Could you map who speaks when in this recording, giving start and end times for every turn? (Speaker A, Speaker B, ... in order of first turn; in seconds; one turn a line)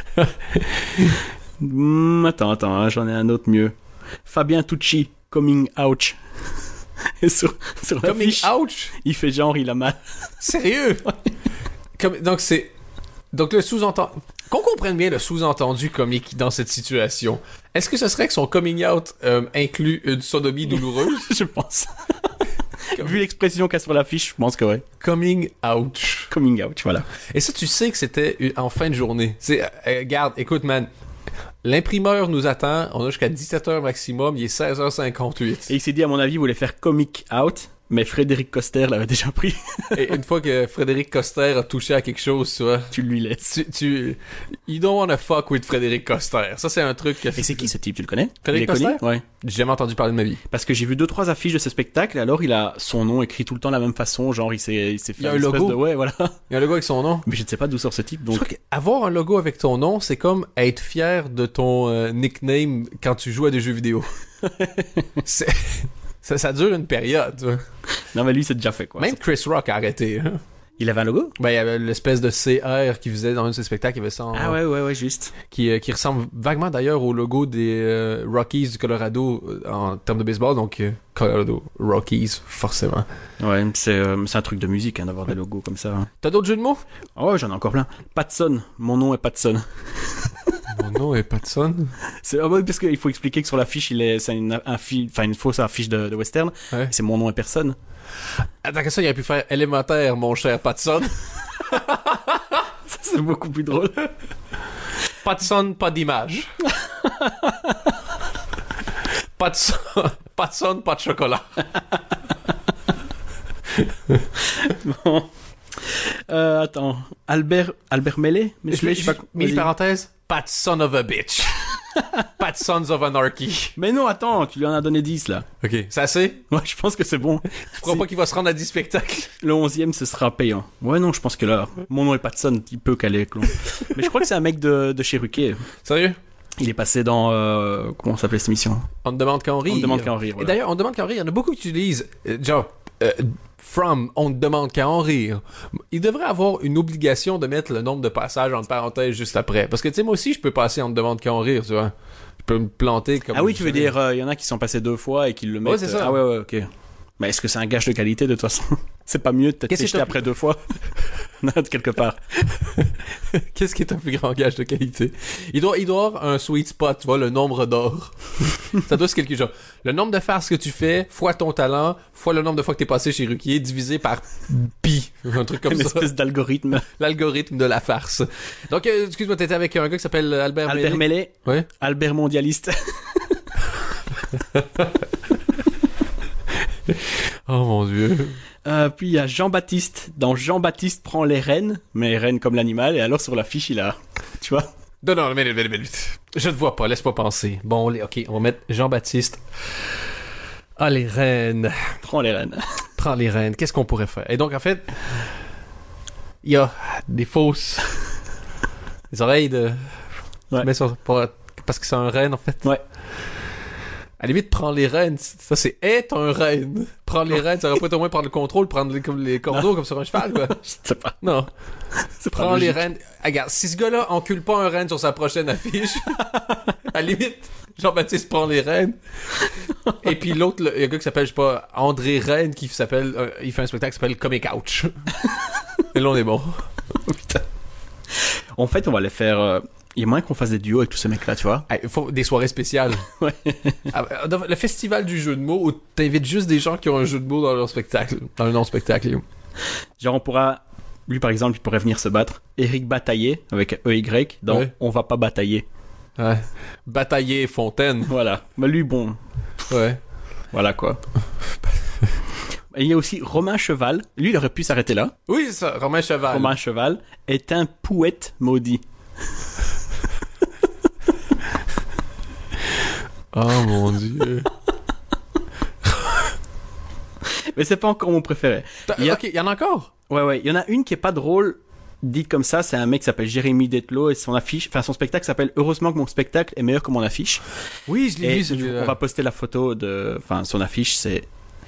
Speaker A: 0.2-1.2
Speaker B: 1.6-3.7
Speaker B: 4.3-6.2
Speaker B: 7.2-10.0
Speaker A: 8.0-8.9
Speaker A: 10.4-11.1
Speaker A: 12.0-12.7
Speaker A: 13.3-21.3
Speaker B: 20.7-24.9
Speaker A: 25.0-26.3
Speaker B: 26.3-27.1
Speaker A: 27.3-30.9
Speaker A: 31.6-35.7
Speaker B: 35.7-40.2
Speaker A: 39.9-42.9
Speaker B: 42.9-43.5
Speaker A: 43.5-47.7
Speaker B: 47.4-49.2
Speaker A: 48.4-50.4
Speaker B: 50.5-56.4
Speaker A: 55.2-55.8
Speaker A: 56.5-57.2
Speaker B: 57.3-58.5
Speaker A: 58.3-64.1
Speaker B: 64.4-65.2
Speaker A: 65.2-67.6
Speaker B: 68.0-69.2
Speaker A: 69.0-70.4
Speaker B: 70.8-71.4
Speaker A: 71.4-74.6
Speaker B: 74.3-75.3
Speaker A: 75.5-83.1
Speaker B: 83.4-86.1
Speaker A: 86.2-86.8
Speaker B: 87.2-90.5
Speaker A: 90.7-91.9
Speaker B: 92.2-97.8
Speaker A: 98.6-102.6
Speaker B: 102.9-104.1
Speaker A: 105.2-106.5
Speaker B: 106.7-108.0
Speaker A: 109.4-111.7
Speaker B: 114.3-119.7
Speaker A: 118.7-123.8
Speaker B: 123.8-125.5
Speaker A: 125.6-126.4
Speaker B: 126.5-128.1
Speaker A: 127.7-129.3
Speaker B: 129.4-135.7
Speaker A: 135.8-136.2
Speaker B: 136.6-138.9
Speaker A: 139.1-153.9
Speaker B: 139.7-140.6
Speaker B: 153.3-156.7
Speaker A: 155.6-156.2
Speaker B: 157.2-160.7
Speaker A: 159.7-160.3
Speaker B: 161.4-162.6
Speaker A: 162.8-176.1
Speaker B: 175.7-176.9
Speaker A: 176.9-181.7
Speaker B: 180.7-183.8
Speaker A: 184.6-184.9
Speaker A: 186.9-188.4
Speaker B: 188.7-194.7
Speaker A: 195.0-199.4
Speaker A: 200.8-202.0
Speaker B: 202.0-202.8
Speaker A: 203.0-205.2
Speaker A: 206.4-207.9
Speaker A: 209.1-209.8
Speaker A: 210.6-212.7
Speaker A: 214.2-220.6
Speaker B: 219.5-221.2
Speaker A: 221.2-221.5
Speaker B: 222.0-222.8
Speaker A: 222.3-235.1
Speaker A: 235.8-236.6
Speaker B: 237.1-237.4
Speaker B: 238.6-241.7
Speaker A: 241.7-243.1
Speaker B: 243.1-243.9
Speaker A: 243.9-249.2
Speaker B: 250.0-255.7
Speaker A: 256.2-258.1
Speaker B: 258.1-259.2
Speaker A: 259.7-260.0
Speaker B: 260.5-261.0
Speaker B: 262.7-265.1
Speaker A: 265.3-266.6
Speaker B: 266.3-268.8
Speaker A: 273.3-274.5
Speaker B: 277.5-279.2
Speaker A: 278.9-279.9
Speaker B: 280.1-287.4
Speaker A: 287.9-289.0
Speaker B: 288.2-291.3